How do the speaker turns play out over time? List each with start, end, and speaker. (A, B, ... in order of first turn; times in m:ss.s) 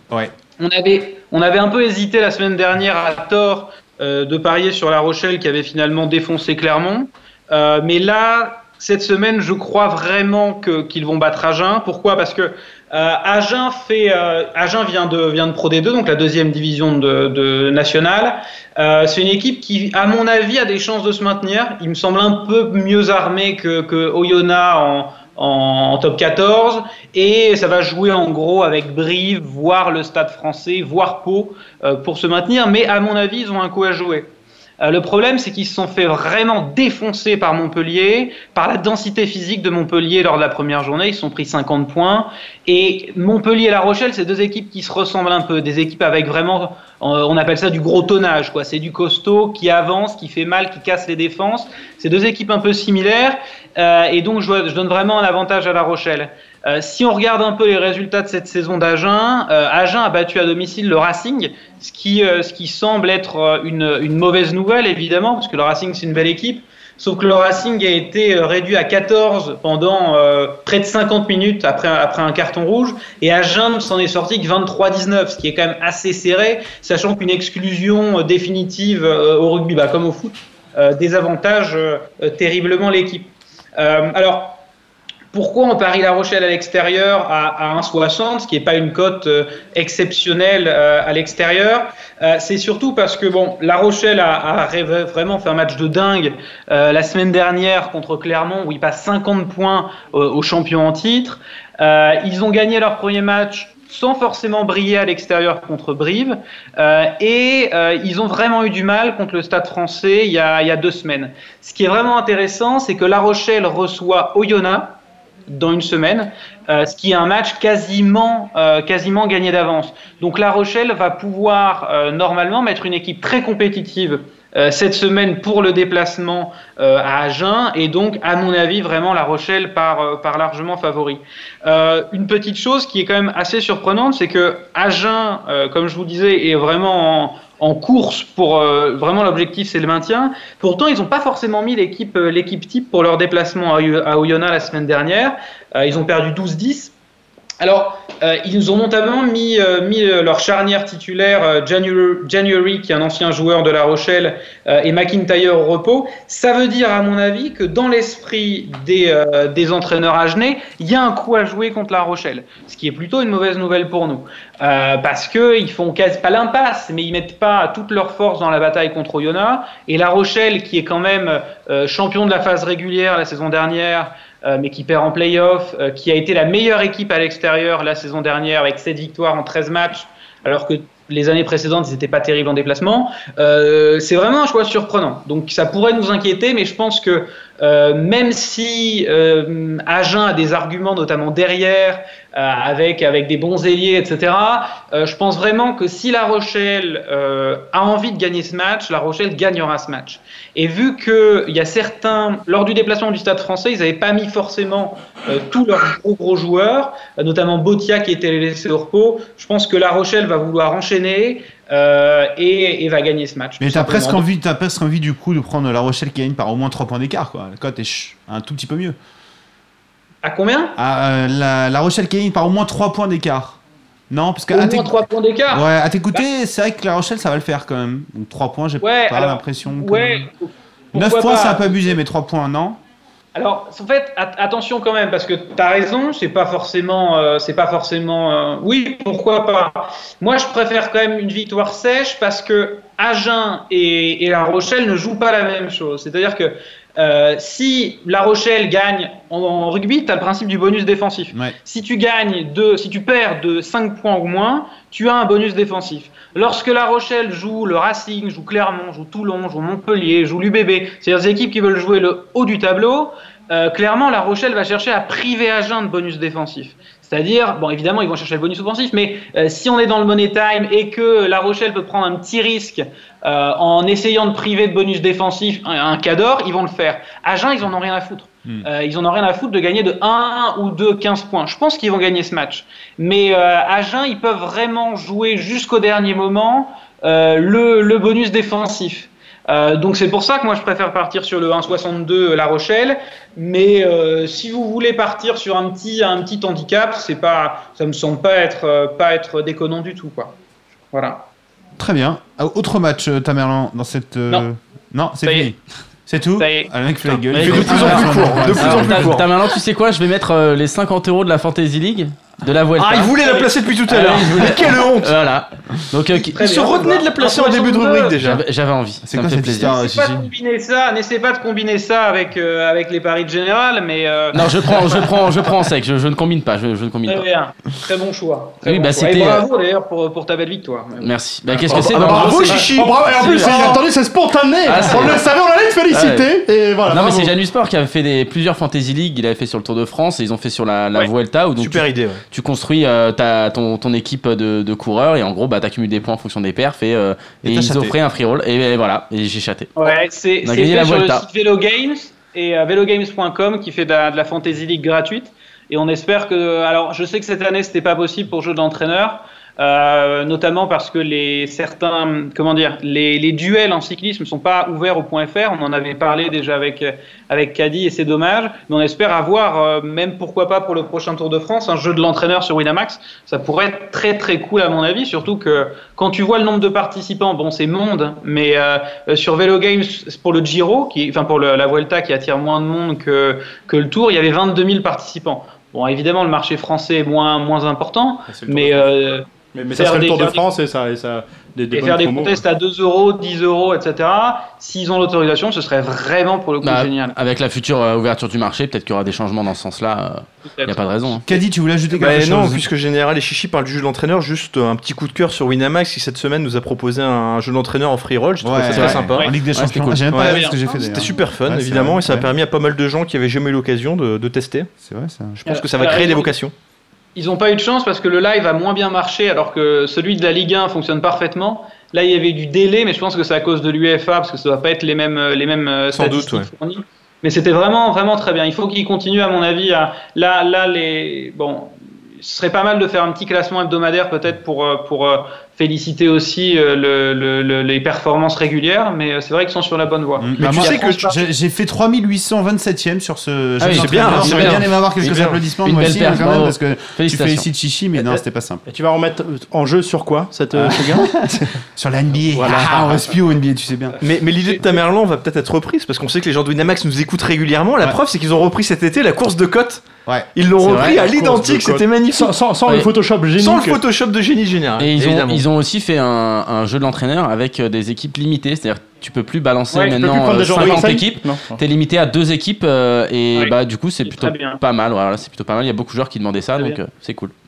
0:00.6-1:24.6 A
1:25.3-2:26.9 A
2:27.6-3:34.2 A
3:33.6-3:39.0 B
3:40.2-3:40.8 A
3:40.8-3:43.6 B
3:44.1-3:50.3 B
3:44.5-3:46.2 A
3:48.8-3:51.9 A
3:50.9-3:52.8 B
3:53.3-5:00.3 A
5:00.9-5:01.2 A
5:01.8-5:09.1 B
5:05.2-5:05.5 A
5:06.4-5:06.7 A
5:07.3-5:09.3 C
5:07.3-5:13.2 D
5:12.8-5:15.1 C
5:13.2-5:13.5 A
5:13.9-5:16.4 D
5:16.2-5:18.4 C
5:16.2-5:18.2 A
5:18.2-5:19.8 D
5:19.0-5:20.3 B
5:19.6-5:25.0 A
5:24.3-5:27.2 D
5:27.1-5:31.1 A
5:28.6-5:29.5 D
5:31.0-5:33.8 D
5:31.7-5:33.8 C
5:31.8-5:37.3 E
5:33.5-5:33.8 A
5:34.6-5:35.2 D
5:35.9-5:36.3 D
5:36.9-5:49.8 D
5:41.6-5:42.2 C
5:47.4-5:48.0 B
5:49.8-6:30.4 A
5:50.4-5:51.2 D
6:28.3-6:28.9 E
6:29.5-6:32.4 E
6:31.7-6:37.2 A
6:36.6-6:41.2 D
6:40.4-6:40.9 A
6:41.2-6:42.6 B
6:41.9-6:49.3 C
6:48.4-6:52.3 B
6:48.7-6:50.1 D
6:50.1-6:54.7 C
6:50.2-6:50.6 A
6:54.8-6:55.4 B
6:55.4-6:56.5 C
6:55.5-6:56.4 A
6:57.2-7:21.2 A
7:05.9-7:06.5 C
7:20.2-7:28.6 B
7:20.4-7:21.1 C
7:23.6-7:27.4 D
7:23.7-7:25.4 C
7:28.7-7:31.4 E
7:30.5-7:34.0 B
7:32.3-7:33.0 E
7:34.0-7:42.4 C
7:40.6-7:41.1 D
7:41.0-7:43.8 E
7:43.4-7:45.4 C
7:44.8-7:57.3 D
7:49.7-7:50.0 A
7:50.0-7:51.6 E
7:50.6-7:50.9 C
7:53.3-7:54.6 A